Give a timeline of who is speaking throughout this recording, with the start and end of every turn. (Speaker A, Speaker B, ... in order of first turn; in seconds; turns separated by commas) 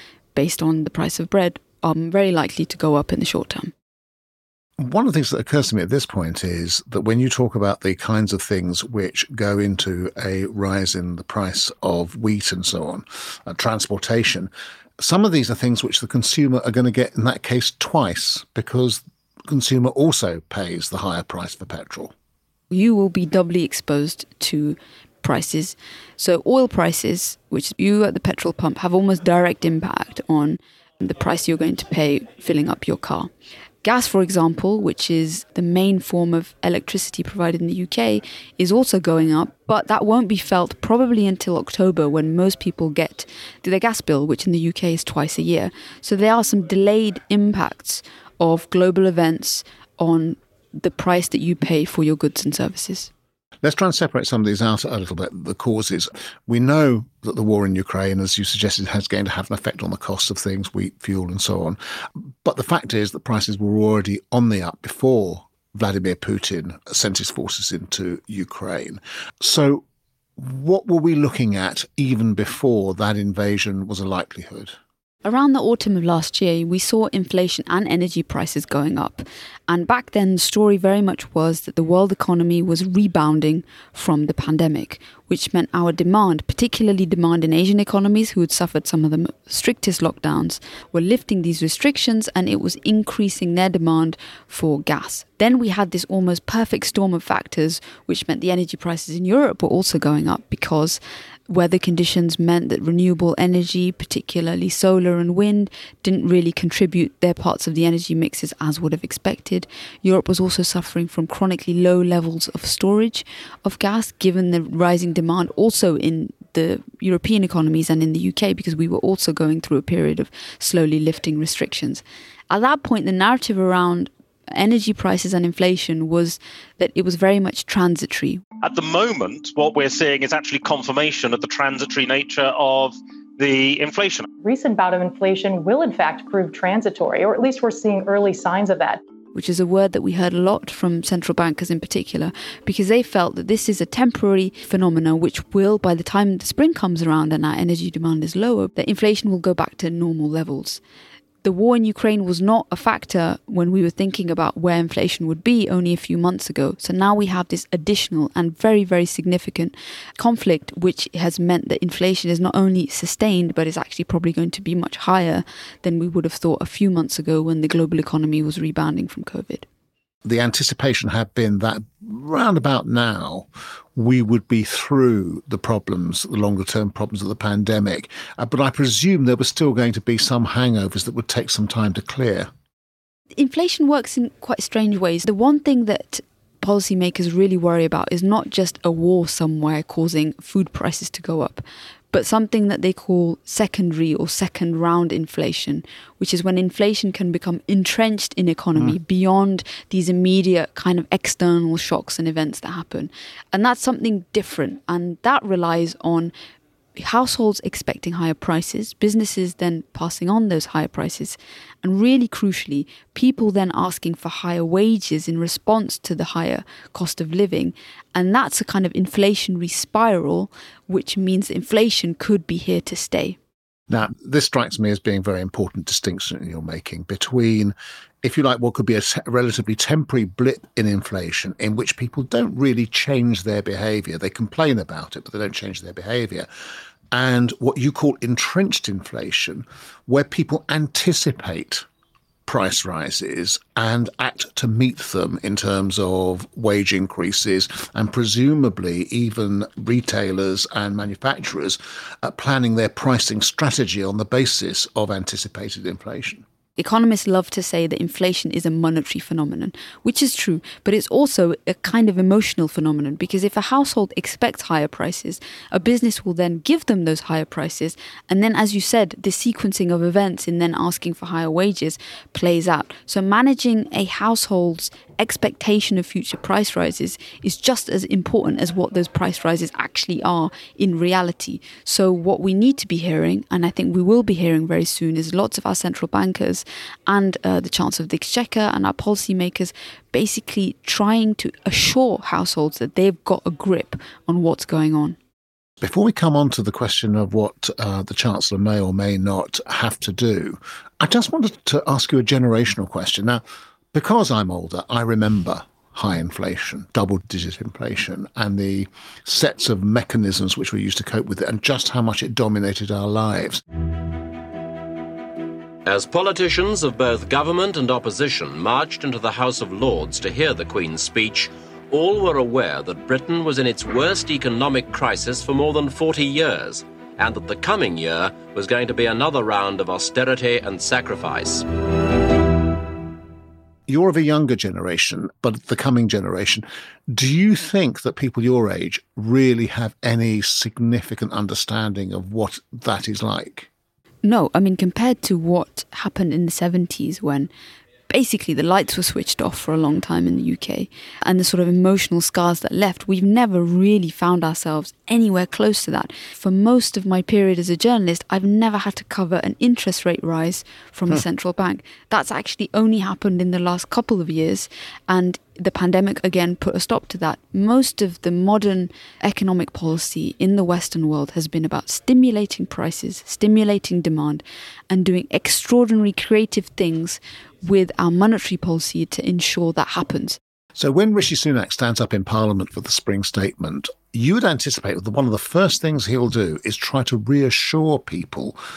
Speaker A: 0.3-3.7, Speaker B: 4.8-22.1, Speaker A: 22.7-33.3, Speaker A: 33.8-53.1, Speaker B: 53.6-69.8, Speaker B: 70.4-74.7, Speaker A: 75.2-128.4, Speaker C: 128.6-134.3, Speaker D: 134.4-139.0, Speaker A: 139.3-150.8, Speaker A: 151.4-169.7, Speaker B: 170.2-182.5, Speaker A: 183.3-206.3, Speaker A: 206.9-223.4, Speaker B: 223.9-236.5, Speaker B: 237.1-241.8, Speaker B: 242.4-256.4, Speaker A: 256.8-295.2, Speaker B: 295.8-313.6, Speaker E: 315.8-331.6, Speaker B: 333.9-343.7, Speaker A: 344.2-347.5, Speaker A: 348.1-380.4, Speaker B: 380.7-388.6